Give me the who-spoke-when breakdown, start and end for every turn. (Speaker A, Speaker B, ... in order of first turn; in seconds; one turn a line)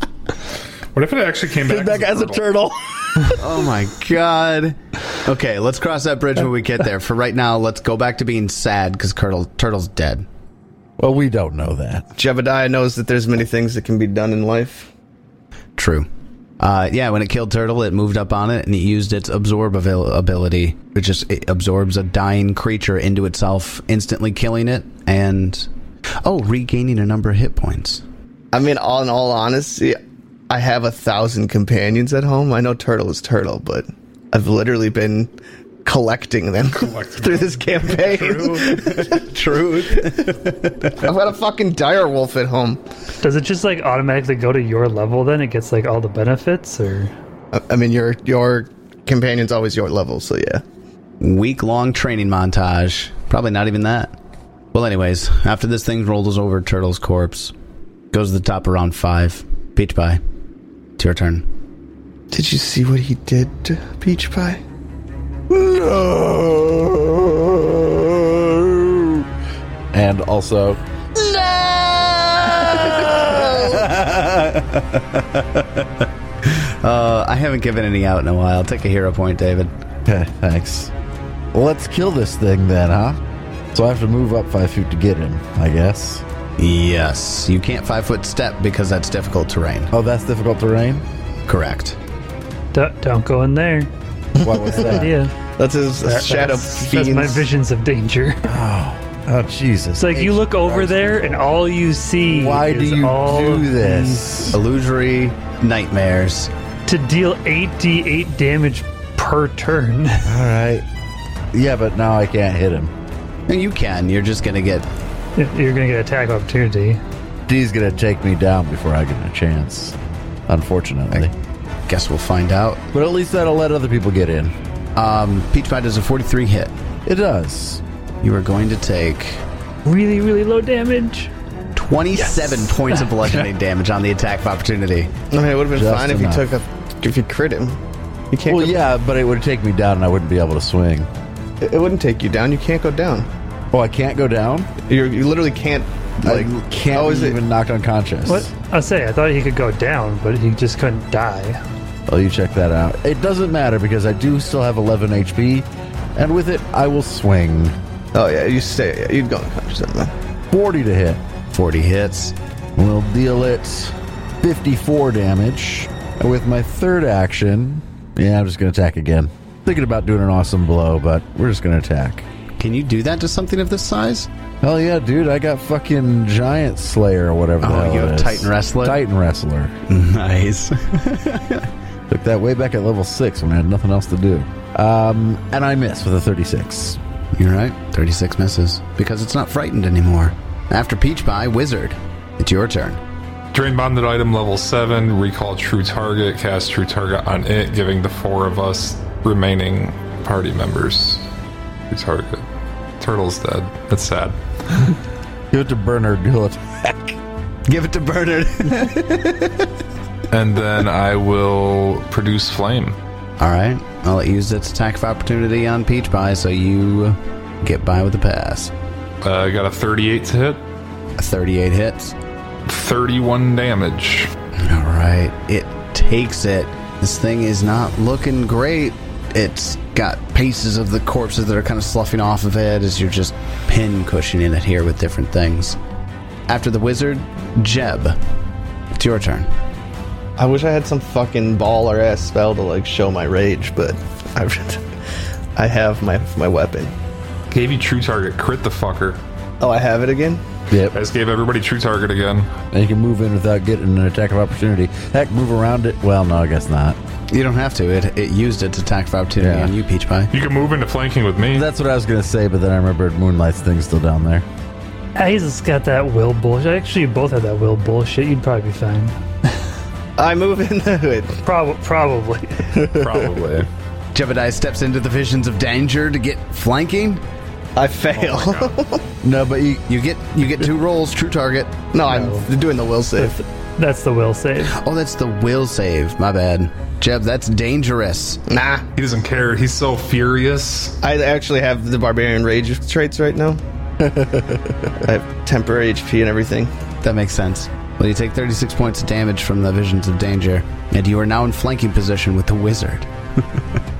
Speaker A: 0.9-2.5
Speaker B: 1.6-3.5
Speaker C: 3.4-10.3
Speaker B: 11.0-12.1
Speaker D: 12.2-14.9
Speaker C: 15.8-16.1
Speaker C: 16.6-25.7
Speaker C: 26.2-28.0
Speaker D: 28.5-30.0
Speaker D: 30.5-35.3
Speaker D: 35.9-39.3
Speaker A: 36.7-38.9
Speaker C: 38.8-41.1
Speaker D: 41.0-42.8
Speaker E: 43.2-47.1
Speaker D: 47.5-50.6
Speaker C: 51.2-54.1
Speaker C: 54.7-57.5
Speaker C: 58.1-60.2
Speaker C: 61.0-61.5
Speaker D: 62.3-64.6
Speaker B: 65.5-69.3
Speaker B: 69.9-74.0
Speaker C: 72.6-79.7
Speaker B: 80.1-80.9
Speaker B: 81.5-83.2
Speaker B: 83.7-86.2
Speaker C: 86.6-89.9
Speaker B: 89.9-91.0
Speaker C: 91.5-92.0
Speaker E: 92.7-93.9
Speaker B: 94.4-95.2
Speaker D: 94.4-95.0
Speaker E: 94.7-95.3
Speaker D: 95.6-97.5
Speaker E: 96.0-98.5
Speaker B: 98.5-101.4
Speaker E: 100.0-104.4
Speaker B: 102.3-104.6
Speaker C: 104.5-106.5
Speaker E: 106.9-110.3
Speaker B: 110.3-110.8
Speaker B: 111.5-112.9
Speaker C: 113.5-114.9
Speaker E: 115.4-117.0
Speaker B: 117.5-120.0
Speaker B: 120.5-121.3
Speaker C: 121.9-122.8
Speaker B: 122.9-124.5
Speaker C: 125.0-126.8
Speaker B: 127.1-127.8
Speaker C: 128.2-129.4
Speaker E: 129.8-131.3
Speaker C: 131.8-135.1
Speaker E: 132.2-133.2
Speaker D: 135.3-137.8
Speaker B: 135.7-136.5
Speaker D: 138.3-138.9
Speaker B: 138.5-141.1
Speaker D: 141.6-143.3
Speaker B: 143.7-144.7
Speaker D: 144.9-147.4
Speaker B: 146.2-148.5
Speaker E: 148.3-151.6
Speaker B: 152.1-157.8
Speaker D: 158.1-160.1
Speaker B: 160.5-161.2
Speaker C: 161.5-162.4
Speaker B: 162.8-172.3
Speaker C: 172.6-174.3
Speaker B: 174.6-179.7
Speaker C: 177.6-179.0
Speaker C: 179.9-181.7
Speaker B: 182.1-187.0
Speaker C: 187.4-193.0
Speaker A: 193.5-201.3
Speaker A: 201.9-202.5
Speaker A: 203.0-204.9
Speaker B: 205.5-207.2
Speaker C: 207.7-209.7
Speaker A: 210.3-213.0
Speaker C: 213.4-218.7
Speaker A: 219.2-220.6
Speaker C: 221.2-222.2
Speaker A: 222.7-224.3
Speaker C: 224.6-235.8
Speaker C: 236.5-238.2
Speaker C: 239.0-239.5
Speaker D: 240.4-244.8
Speaker D: 245.6-246.9
Speaker A: 247.5-249.2
Speaker D: 249.6-250.4
Speaker B: 250.7-251.0
Speaker A: 250.9-252.6
Speaker B: 252.7-257.0
Speaker C: 257.3-260.3
Speaker B: 259.4-259.7
Speaker A: 260.3-261.7
Speaker B: 261.5-264.4
Speaker E: 265.2-269.2
Speaker D: 270.2-271.3
Speaker E: 271.4-272.8
Speaker B: 272.7-273.1
Speaker A: 272.8-273.7
Speaker C: 274.1-277.2
Speaker D: 277.8-279.1
Speaker A: 278.1-278.7
Speaker B: 279.2-279.9
Speaker C: 279.9-281.8
Speaker D: 281.9-283.4
Speaker E: 282.1-282.5
Speaker E: 283.2-284.8
Speaker C: 284.7-288.4
Speaker D: 288.5-288.9
Speaker A: 289.0-291.0
Speaker D: 291.0-293.6
Speaker B: 294.0-294.8
Speaker D: 294.9-296.7
Speaker C: 297.0-303.6